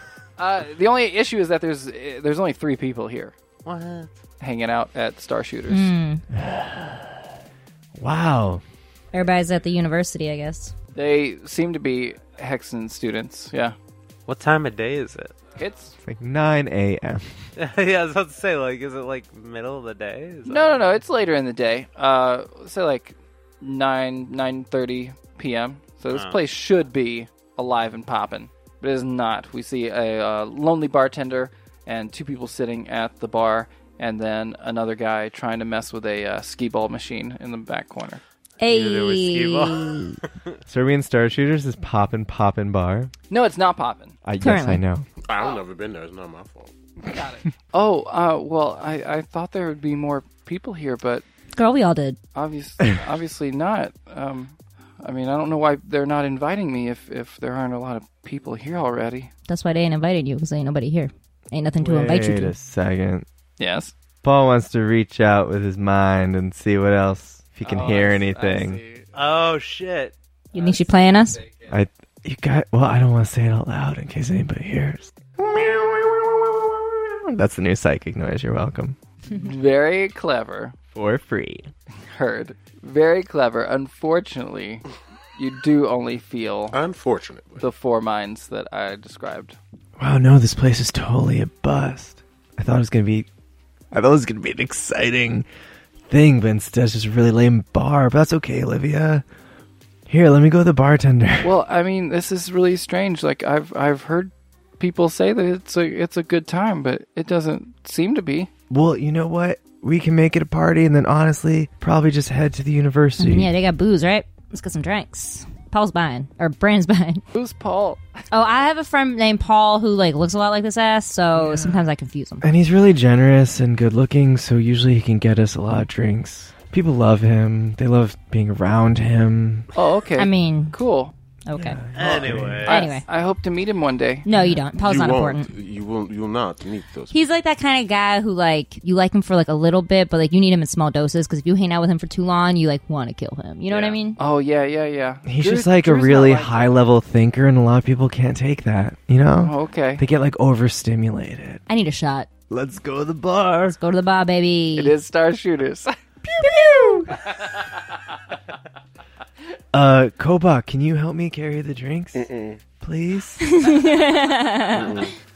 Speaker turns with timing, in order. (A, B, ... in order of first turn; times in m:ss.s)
0:00.4-0:03.3 A
0:03.6-0:04.1 B
0:04.4-0:05.9 A
0:05.7-0:06.2 C
0:06.3-0:07.2 D
0:07.9-0:08.6 D
0:09.1-0:10.7 C
0:10.9-0:13.7 A
0:14.3-0:15.4 B
0:15.6-0:15.9 A
0:16.0-0:17.4 D
0:17.6-0:21.0 B
0:20.4-0:38.2 A
0:26.1-0:26.4 B
0:38.6-0:40.2 C
0:38.6-0:40.2 B
0:40.7-0:43.1 D
0:43.3-0:44.2 A
0:44.2-0:45.1 D
0:44.4-0:44.8 C
0:45.2-0:46.7 E
0:47.0-0:51.2 A
0:51.6-0:52.2 C
0:52.3-0:59.3 A
0:59.5-1:02.5 C
1:01.8-1:03.2 D
1:03.6-1:03.9 A
1:04.2-1:08.8 D
1:07.6-1:09.1 A
1:09.1-1:10.1 B
1:10.5-1:11.4 C
1:10.5-1:10.9 A
1:11.7-1:19.0 D
1:19.3-1:20.8 A
1:20.9-1:21.7 D
1:22.1-1:24.8 A
1:25.4-1:26.8 A
1:26.7-1:27.7 E
1:27.6-1:29.6 A
1:30.0-1:33.3 D
1:33.9-1:35.4 D
1:36.1-1:39.2 D
1:40.1-1:41.5 D
1:41.4-1:48.5 A
1:48.7-1:53.5 D
1:53.2-1:57.2 C
1:57.3-1:58.0 A
1:58.3-2:02.4 C
2:01.3-2:01.8 D
2:02.4-2:09.7 D
2:09.7-2:11.1 A
2:10.2-2:10.8 C
2:11.5-2:11.8 C
2:11.5-2:12.7 D
2:11.9-2:12.8 B
2:12.6-2:14.3 A
2:12.7-2:13.0 C
2:14.2-2:15.5 C
2:14.3-2:14.6 D
2:14.8-2:17.2 E
2:17.1-2:24.2 C
2:23.7-2:24.0 B
2:24.2-2:26.8 A
2:25.2-2:31.6 D
2:29.4-2:30.0 A
2:31.7-2:32.3 C
2:32.5-2:33.8 D
2:33.7-2:34.9 C
2:34.7-2:35.9 A
2:36.2-2:37.2 D
2:39.7-2:42.3 D
2:42.1-2:42.6 E
2:42.8-2:43.4 D
2:43.5-2:45.0 C
2:44.7-2:45.1 E